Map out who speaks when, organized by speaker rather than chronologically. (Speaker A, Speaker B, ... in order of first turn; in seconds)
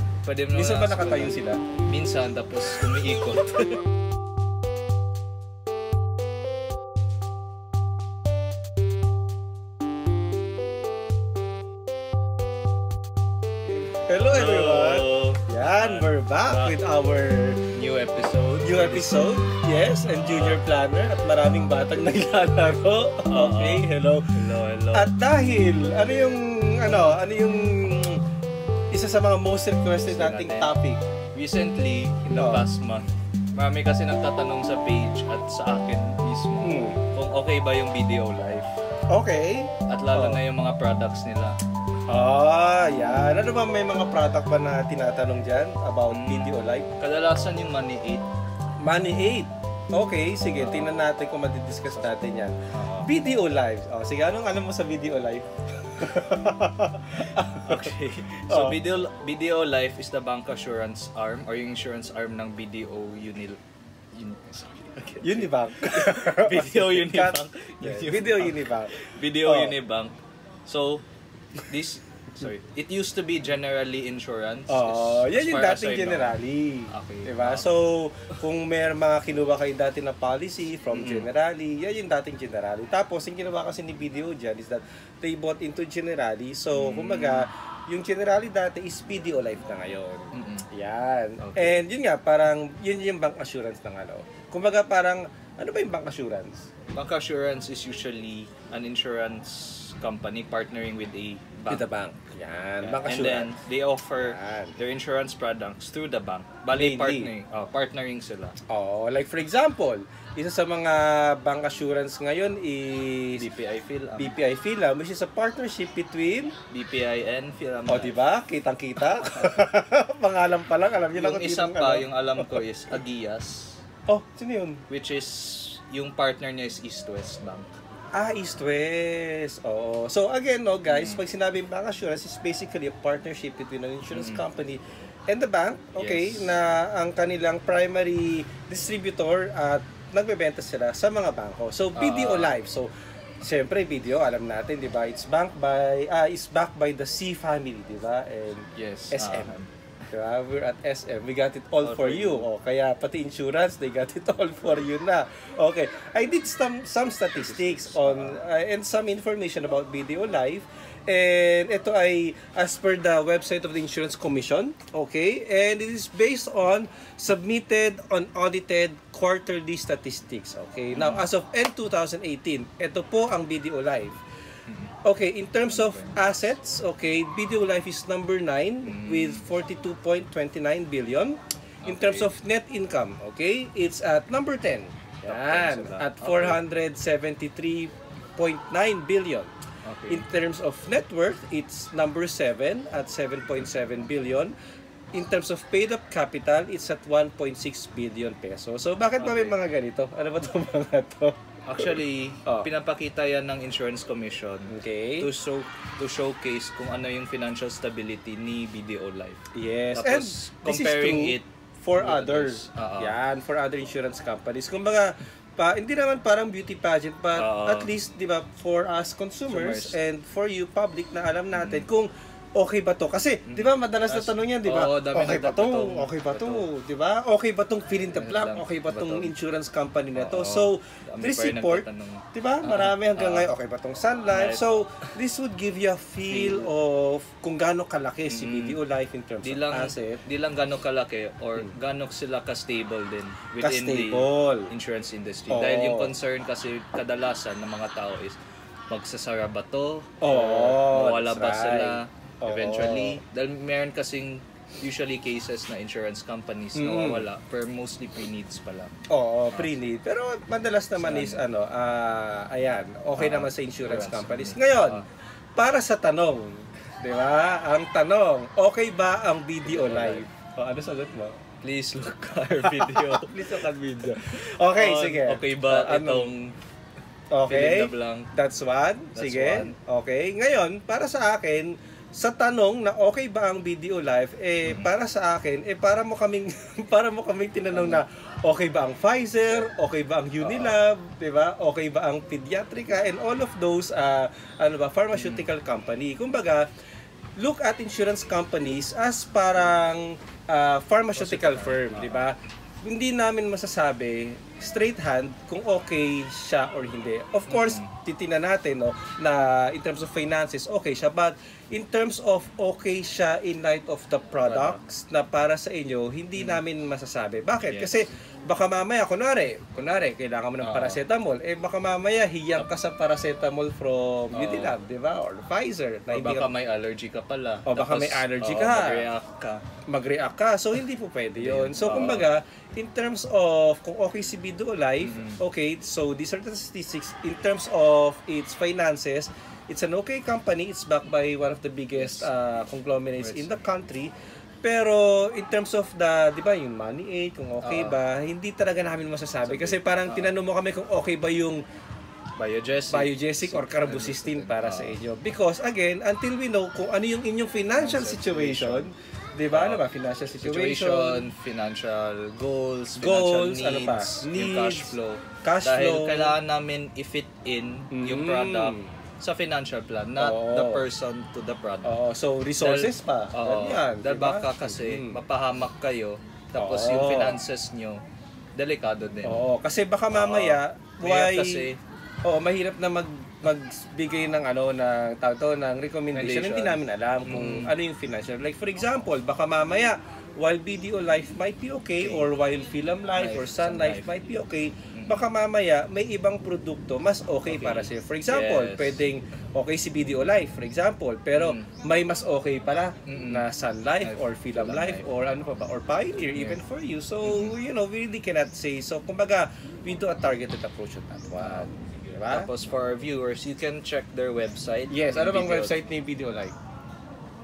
Speaker A: 0.2-3.8, 14.3-16.7, 17.7-19.3, 20.0-20.6, 23.3-25.1, 30.1-30.7, 31.4-38.8, 39.9-41.5, 46.1-48.2, 50.6-50.9, 52.7-53.1, 57.3-63.6, 64.1-70.2, 70.7-71.0, 71.7-76.4, 76.9-77.8, 80.9-81.3, 86.7-87.5, 90.3-90.7, 91.4-91.8, 96.9-101.8, 102.8-108.6, 113.4-114.3, 116.7-118.2, 119.1-119.6, 121.1-123.8, 124.9-127.7, 130.9-131.2, 134.1-134.4, 136.0-136.6, 142.0-142.5, 148.7-149.7, 151.8-152.5, 157.3-158.4, 170.9-171.3, 174.7-174.9, 175.7-176.3, 178.8-179.4, 181.8-182.3, 185.2-186.6, 189.8-190.3, 199.2-199.6, 201.7-213.2, 217.3-217.9, 219.5-220.0, 221.5-221.9, 223.5-226.7, 228.1-229.3, 230.1-233.5, 234.3-235.1, 236.3-236.7, 238.3-238.8, 239.4-248.4, 248.9-258.9, 260.9-261.4, 263.2-265.0, 269.7-270.3, 271.6-273.6, 274.6-276.6, 277.5-278.3, 279.1-279.8, 284.6-284.9, 287.7-288.0, 290.4-290.8, 295.1-295.5, 301.1-302.3, 307.5-307.9, 314.4-314.8, 316.4-316.6, 317.6-318.0, 320.6-321.0, 324.3-324.8, 326.1-329.6, 331.4-332.3, 335.0-335.4, 342.0-342.3, 343.2-343.5, 347.6-348.0, 349.4-350.3, 352.4-355.0, 357.8-358.9, 359.5-359.8, 360.4-372.0, 372.6-378.0, 378.6-379.4, 380.1-381.8, 386.1-387.7, 393.2-394.1, 394.9-395.2, 397.5-399.0, 401.3-401.7, 403.1-403.4, 404.0-405.0, 406.3-406.6, 407.2-407.6, 411.4-411.7, 412.3-415.8
Speaker B: 0.5-1.6, 13.7-17.6, 18.6-24.3, 24.9-28.2, 28.9-31.0, 32.4-32.7, 36.6-37.0, 39.1-40.4, 42.1-46.9, 48.8-58.8, 65.2-69.8, 74.7-96.7, 101.7-103.5, 104.2-104.8, 106.7-107.3, 108.7-113.5, 114.2-116.5, 117.9-122.6, 124.1-124.8, 128.1-149.6, 150.1-174.2, 175.0-189.5, 190.1-194.5, 195.1-202.7, 204.7-205.3, 209.5-240.2, 243.6-244.7, 245.5-246.2, 250.2-253.2, 256.8-257.3, 259.1-265.0, 265.6-271.4, 272.6-276.3, 277.3-296.7, 297.4-326.5, 327.6-329.1, 329.9-344.1, 344.6-351.6, 352.9-361.3, 363.0-366.4, 367.9-368.9, 370.2-370.9, 371.8-375.2, 376.6-377.4, 379.2-381.7, 382.2-412.5, 414.9-416.6